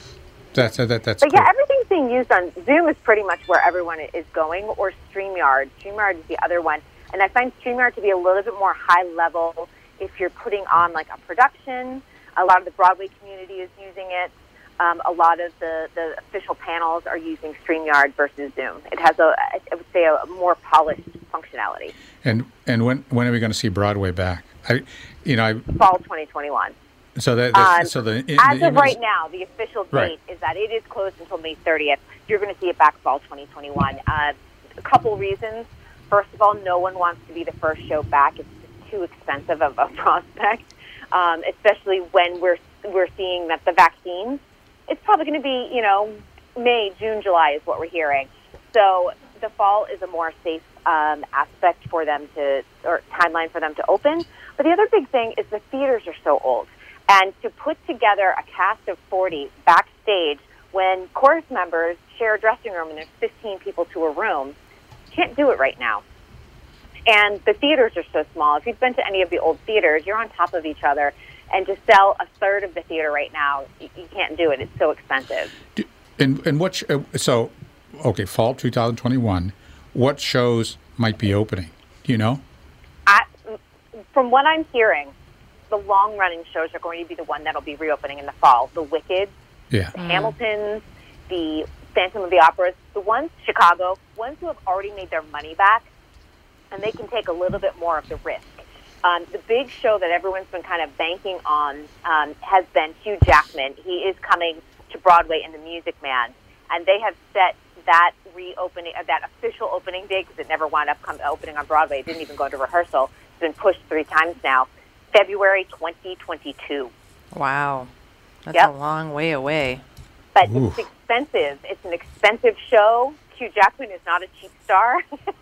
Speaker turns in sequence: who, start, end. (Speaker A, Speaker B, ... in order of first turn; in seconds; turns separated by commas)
Speaker A: 0.5-1.5, Speaker B: 1.2-21.9, Speaker A: 22.2-25.7, Speaker B: 25.8-26.7, Speaker A: 27.2-29.0, Speaker B: 27.5-64.5, Speaker B: 65.1-66.0, Speaker B: 67.1-75.5, Speaker A: 75.8-82.4, Speaker B: 84.1-85.1, Speaker B: 85.7-89.3, Speaker A: 89.7-90.0, Speaker C: 90.0-90.3, Speaker B: 90.0-95.9, Speaker B: 96.7-116.9, Speaker C: 117.3-117.9, Speaker C: 118.5-119.8, Speaker B: 120.3-125.0, Speaker A: 120.5-120.8